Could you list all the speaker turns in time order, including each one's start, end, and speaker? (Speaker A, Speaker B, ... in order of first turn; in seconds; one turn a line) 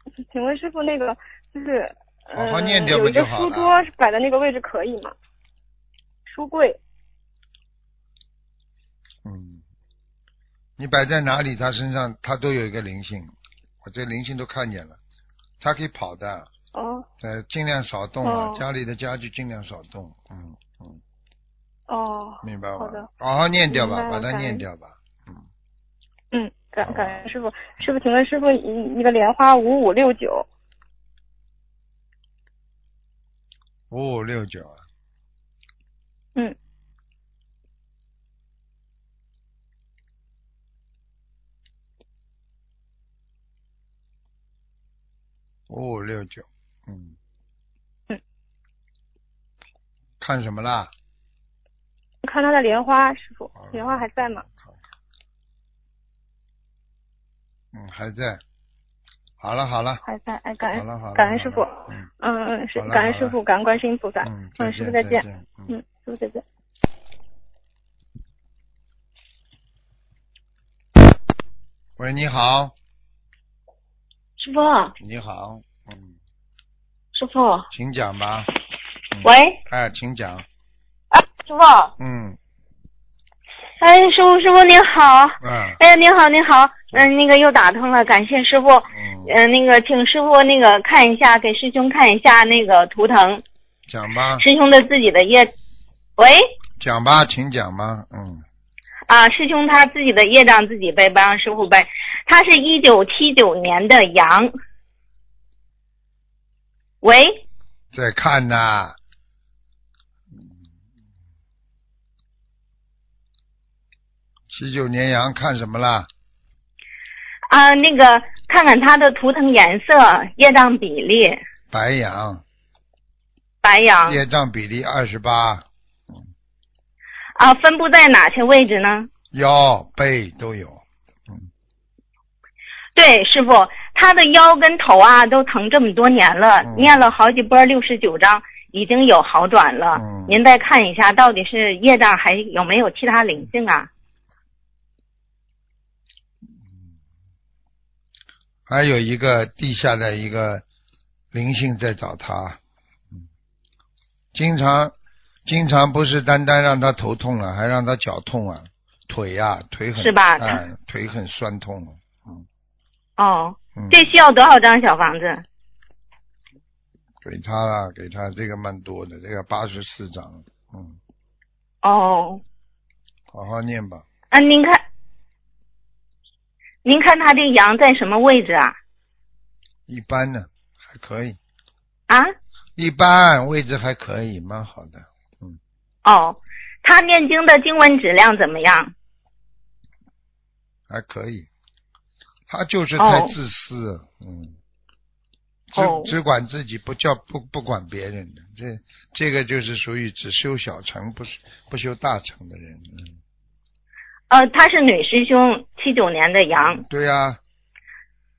Speaker A: 0.3-5.1
Speaker B: 2.3-3.9
Speaker A: 6.3-6.8
Speaker B: 9.2-9.6
Speaker B: 10.8-15.0
Speaker B: 15.6-16.5
Speaker A: 16.7-17.1
Speaker B: 17.2-21.0
Speaker A: 18.2-18.6
Speaker A: 21.9-23.1
Speaker B: 22.4-25.4
Speaker A: 23.7-24.6
Speaker A: 26.3-30.4
Speaker B: 26.8-27.3
Speaker B: 33.9-34.8
Speaker B: 45.7-47.1
Speaker B: 50.2-50.9
Speaker A: 52.2-54.4
Speaker B: 53.5-54.8
Speaker B: 57.7-58.4
Speaker B: 59.4-60.0
Speaker A: 60.0-66.4
Speaker B: 60.7-62.0
Speaker B: 62.8-63.4
Speaker B: 64.2-65.8
Speaker B: 72.0-72.7
Speaker C: 74.4-74.9
Speaker B: 75.0-76.1
Speaker C: 77.1-77.7
Speaker B: 77.7-78.5
Speaker B: 79.1-80.4
Speaker C: 79.2-79.6
Speaker C: 81.1-81.9
Speaker B: 82.0-82.4
Speaker C: 83.8-93.4
Speaker B: 85.4-85.8
Speaker B: 88.9-89.3
Speaker B: 93.9-94.5
Speaker C: 94.4-95.5
Speaker B: 96.8-98.4
Speaker C: 99.1-104.5
Speaker C: 107.0-107.4
Speaker B: 107.9-109.0
Speaker B: 114.5-116.1
Speaker C: 117.5-121.4
Speaker B: 121.7-122.4
Speaker C: 123.6-124.2
Speaker B: 124.0-125.6
Speaker C: 127.3-129.1
Speaker B: 129.3-131.5
Speaker C: 132.9-143.9
Speaker B: 136.6-137.0
Speaker B: 139.9-140.4
Speaker B: 148.7-150.6
Speaker B: 151.3-152.6
Speaker B: 154.3-154.9
Speaker B: 155.4-162.4
Speaker C: 160.0-160.6
Speaker C: 163.2-165.4
Speaker B: 163.8-164.0
Speaker B: 167.2-171.0
Speaker C: 171.8-172.4
Speaker B: 173.3-174.0
Speaker C: 174.3-174.8
Speaker C: 176.8-178.7
Speaker B: 179.9-181.4
Speaker B: 182.8-185.6
Speaker C: 186.0-188.9
Speaker B: 190.9-191.5
Speaker B: 192.5-194.6
Speaker C: 193.0-193.3
Speaker B: 195.7-203.2
Speaker C: 195.7-196.1
Speaker C: 204.3-206.8
Speaker B: 206.5-207.4